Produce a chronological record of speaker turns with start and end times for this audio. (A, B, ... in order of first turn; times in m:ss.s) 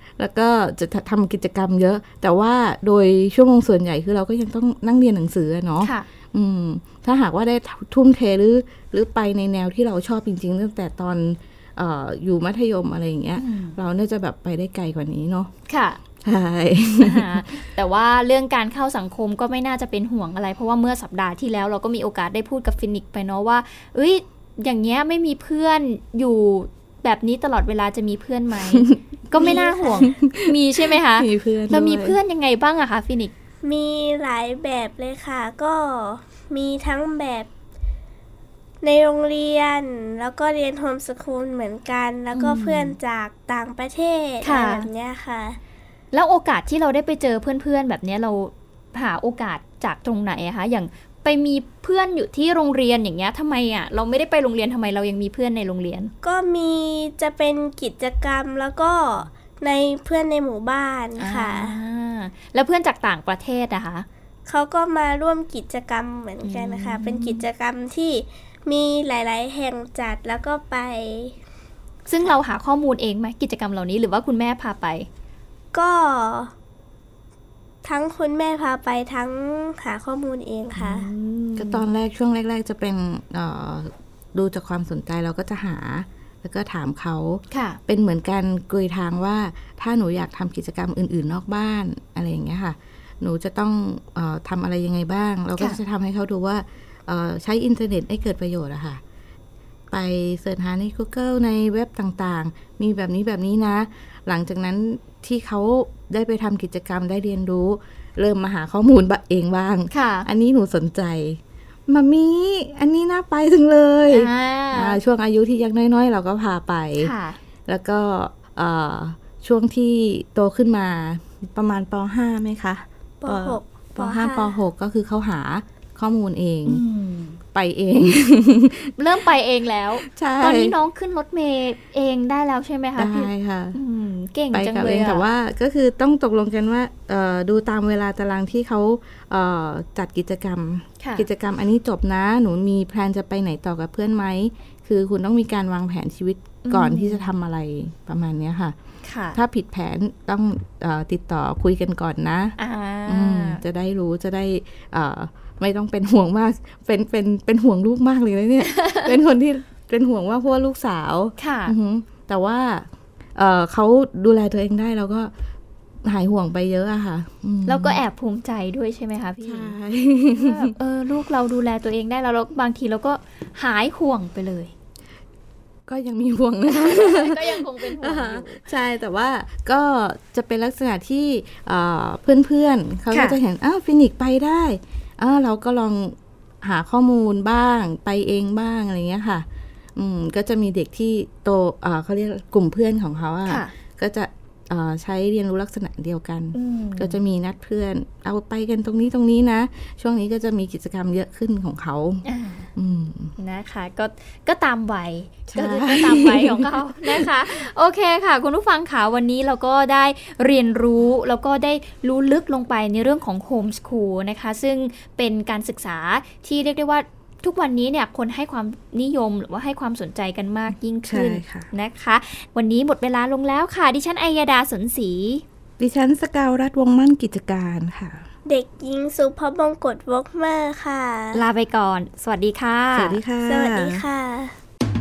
0:00.2-0:15.5 A
0:05.8-0:06.1 B
0:13.4-0:13.8 B
0:15.7-0:16.0 B
0:16.2-0:17.5 A
0:17.0-0:33.3 B
0:28.7-0:32.2 A
0:29.4-0:30.1 C
0:33.6-0:37.5 C
0:38.8-0:45.6 C
0:42.3-0:43.0 B
0:44.4-0:44.9 B
0:46.1-0:56.1 B
0:56.2-1:01.8 C
1:01.2-1:04.1 B
1:04.5-1:11.4 C
1:06.4-1:07.5 B
1:12.1-1:15.1 B
1:15.7-1:16.5 C
1:17.8-1:21.1 C
1:20.8-1:21.8 B
1:21.6-1:39.0 A
1:27.5-1:27.8 B
1:39.9-1:57.1 A
1:49.9-1:50.3 B
1:54.1-1:55.0 B
1:57.0-1:57.4 B
1:57.7-2:06.8 A
2:03.2-2:04.5 C
2:06.7-2:07.4 B
2:07.5-2:08.9 A
2:09.0-2:15.2 B
2:10.0-2:10.8 A
2:13.0-2:13.8 A
2:14.5-2:28.8 A
2:21.0-2:21.3 B
2:26.6-2:27.3 B
2:29.0-2:29.4 B
2:29.4-2:45.3 A
2:32.6-2:33.6 B
2:38.7-2:39.1 B
2:41.4-2:41.8 B
2:46.0-2:48.0 A
2:47.7-2:49.8 B
2:49.4-2:50.7 A
2:50.3-2:54.7 B
2:55.9-3:23.4 A
2:56.7-2:58.7 B
3:03.1-3:03.4 B
3:13.5-3:13.7 B
3:16.5-3:17.2 B
3:22.2-3:22.7 B
3:23.4-3:45.4 B
3:25.5-3:27.3 A
3:41.0-3:41.7 A
3:45.8-3:48.3 A
3:48.5-3:51.4 C
3:51.3-3:53.2 B
3:52.9-3:54.0 A
3:53.5-3:54.5 C